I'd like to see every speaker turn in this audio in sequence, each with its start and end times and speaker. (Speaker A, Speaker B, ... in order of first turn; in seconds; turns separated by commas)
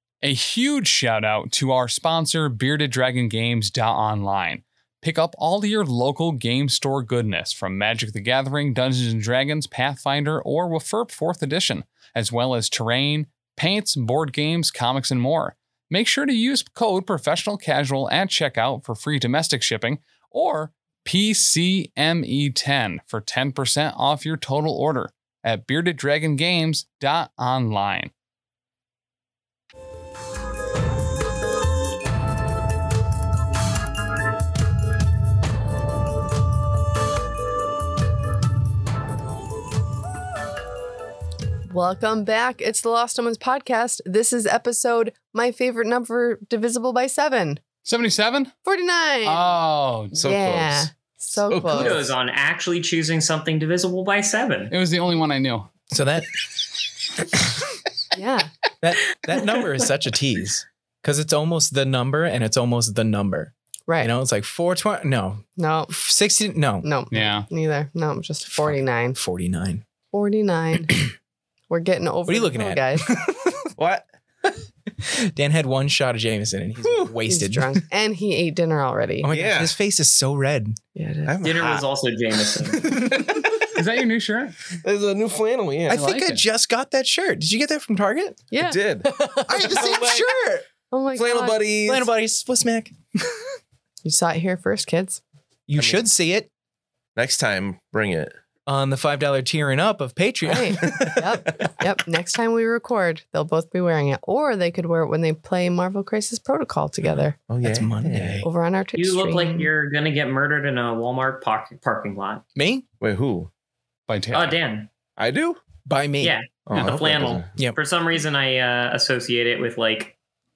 Speaker A: 0.2-28.1, Speaker B: 41.7-47.6, Speaker A: 47.8-48.5, Speaker B: 48.6-49.6, Speaker A: 49.2-50.2, Speaker B: 50.1-52.0, Speaker C: 50.1-50.9, Speaker C: 51.4-52.1, Speaker D: 51.6-54.7, Speaker A: 54.7-55.7, Speaker E: 55.9-56.4, Speaker E: 57.3-57.6, Speaker B: 58.1-58.5, Speaker E: 58.8-66.9, Speaker B: 63.9-64.1, Speaker B: 65.6-66.0, Speaker B: 66.8-69.2, Speaker A: 67.1-67.5, Speaker E: 68.5-69.8, Speaker B: 70.1-71.0, Speaker B: 71.7-73.1, Speaker E: 72.3-73.7, Speaker C: 73.8-74.1, Speaker E: 75.0-77.8, Speaker B: 77.3-79.3, Speaker E: 79.2-80.8, Speaker C: 79.3-79.7, Speaker B: 80.9-81.4, Speaker C: 81.2-81.8, Speaker D: 81.4-82.9, Speaker E: 82.8-83.4, Speaker A: 83.6-84.5, Speaker C: 84.8-86.0, Speaker E: 85.9-88.4, Speaker A: 85.9-86.4, Speaker B: 88.5-89.9, Speaker C: 88.6-89.1, Speaker E: 89.5-90.6, Speaker C: 89.7-90.3, Speaker B: 90.9-91.7, Speaker C: 91.1-92.1, Speaker E: 91.8-92.9, Speaker B: 94.0-95.2, Speaker E: 95.7-96.5, Speaker C: 95.7-96.1, Speaker C: 97.2-98.3, Speaker E: 98.7-101.2, Speaker B: 100.5-107.3, Speaker C: 100.8-101.7, Speaker C: 107.5-108.5, Speaker E: 107.6-108.5, Speaker B: 108.4-109.7, Speaker D: 109.0-112.4, Speaker E: 112.5-112.8, Speaker C: 113.0-113.5, Speaker A: 114.1-114.6, Speaker D: 114.3-114.9, Speaker C: 115.2-115.6, Speaker E: 115.8-116.9, Speaker D: 116.2-120.1, Speaker C: 116.7-117.5